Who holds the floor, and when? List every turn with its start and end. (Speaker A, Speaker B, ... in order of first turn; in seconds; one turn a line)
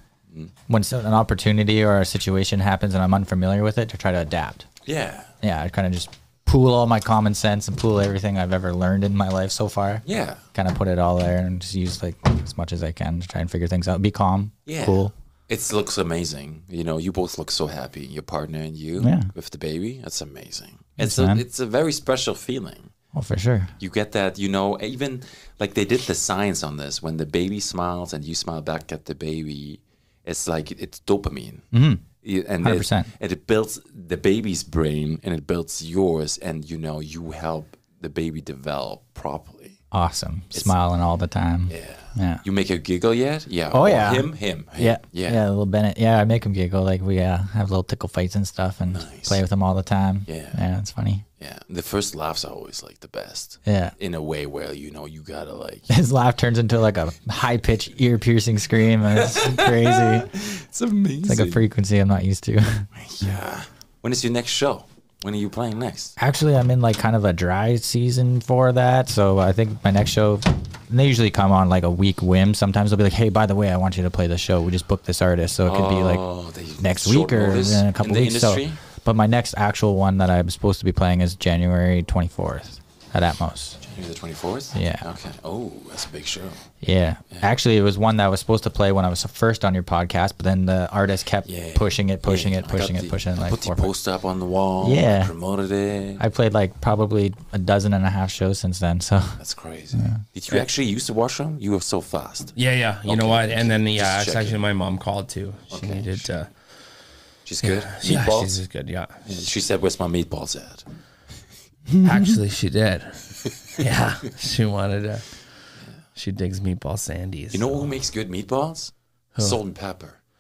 Speaker A: 0.7-4.7
Speaker B: 4.9-5.3
Speaker A: 5.4-15.1
Speaker B: 10.1-10.4
Speaker B: 14.7-22.9
Speaker A: 19.0-19.3
Speaker A: 21.0-21.4
Speaker A: 23.1-23.7
Speaker B: 23.8-31.7
Speaker A: 31.7-32.1
Speaker B: 32.2-39.8
Speaker A: 32.6-33.1
Speaker A: 39.9-42.4
Speaker B: 41.7-45.4
Speaker A: 43.7-51.2
Speaker B: 48.9-49.4
Speaker B: 50.3-50.6
Speaker B: 51.4-55.9
Speaker A: 53.7-53.9
Speaker A: 55.9-60.3
Speaker B: 59.1-61.6
Speaker A: 61.2-62.9
Speaker B: 63.0-66.2
Speaker A: 66.2-76.2
Speaker B: 75.7-78.8
Speaker A: 76.8-83.8
Speaker B: 83.9-86.6
Speaker A: 84.7-85.1
Speaker A: 86.8-93.9
Speaker B: 91.5-96.2
Speaker A: 94.8-95.3
Speaker A: 96.2-99.4
Speaker B: 99.4-104.6
Speaker A: 100.0-100.2
Speaker C: 102.6-106.5
Speaker B: 105.7-106.3
Speaker B: 107.5-108.5
Speaker C: 107.6-109.3
Speaker B: 109.3-110.8
Speaker C: 112.0-115.3
Speaker C: 116.2-117.9
Speaker B: 117.5-120.2